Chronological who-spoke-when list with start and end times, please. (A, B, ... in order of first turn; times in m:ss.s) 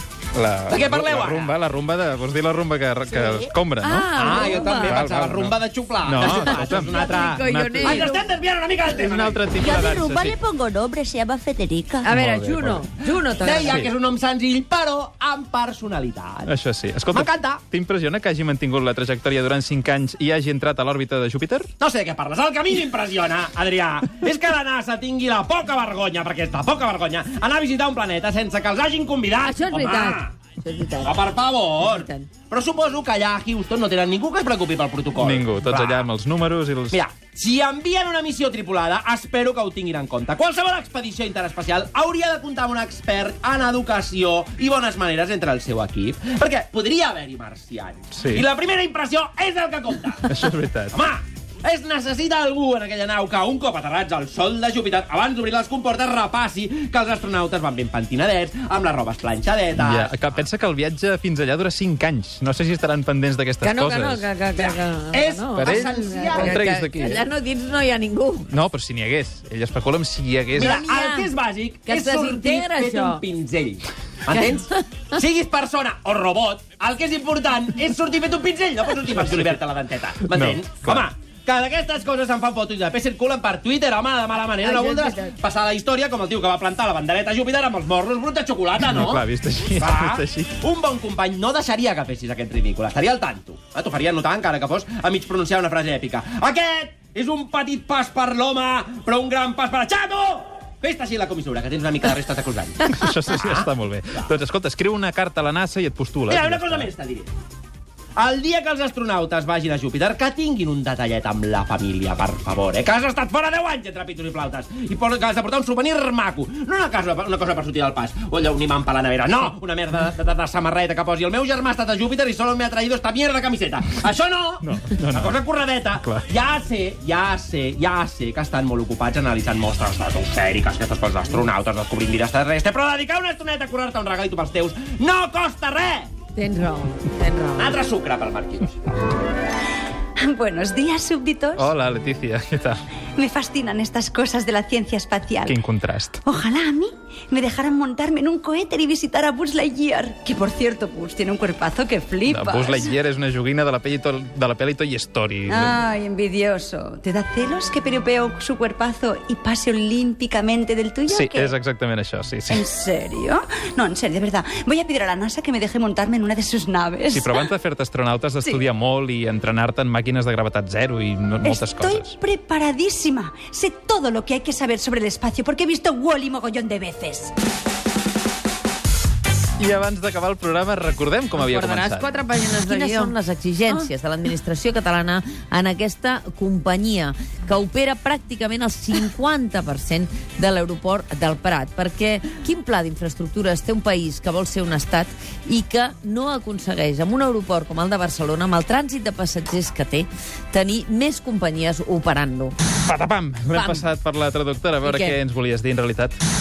0:00.3-0:08.2 A
0:00.7-0:01.5 B
0:03.1-0:03.5 C
0:03.8-0:05.0 D
0:04.1-0:09.5 B
0:06.4-0:08.2 D
0:08.9-0:10.4 A
0:09.5-0:12.1 C
0:12.0-0:13.8 D
0:12.1-0:12.8 A
0:13.4-0:16.5 B
0:13.6-0:13.9 A
0:16.5-0:21.7 A
0:17.1-0:17.6 B
0:21.8-0:30.3 B
0:29.4-0:31.2 D
0:31.0-0:36.1 B
0:31.8-0:32.3 D
0:35.2-0:37.0 A
0:36.9-0:50.3 B
0:48.1-0:48.5 A
0:50.3-0:51.0 A
0:50.9-1:00.3 B
0:59.8-1:04.3 A
1:03.6-1:08.5 D
1:04.5-1:06.5 B
1:05.5-1:07.2 A
1:08.5-1:10.8 A
1:10.6-1:11.3 D
1:10.6-1:29.2 B
1:11.8-1:13.2 D
1:14.3-1:14.8 D
1:19.2-1:19.6 A
1:20.2-1:21.1 A
1:24.7-1:25.3 D
1:28.8-1:30.5 A
1:29.8-1:42.9 B
1:42.9-1:46.9 A
1:46.3-1:47.3 B
1:48.2-2:16.1 B
2:04.6-2:05.4 A
2:05.9-2:06.2 A
2:16.4-2:17.8 D
2:17.6-2:18.8 B
2:20.2-2:21.7 E
2:21.6-2:22.8 A
2:23.2-2:25.6 E
2:25.4-2:26.2 A
2:26.2-2:32.9 E
2:32.3-2:35.8 A
2:35.5-2:41.5 E
2:41.1-2:42.6 A
2:42.5-2:47.5 E
2:47.1-2:52.1 A
2:51.4-2:57.3 E
2:59.6-3:02.1 A
3:01.4-3:22.5 D
3:02.8-3:03.1 C
3:22.8-3:26.1 A
3:23.5-3:23.9 D
3:24.8-3:25.2 D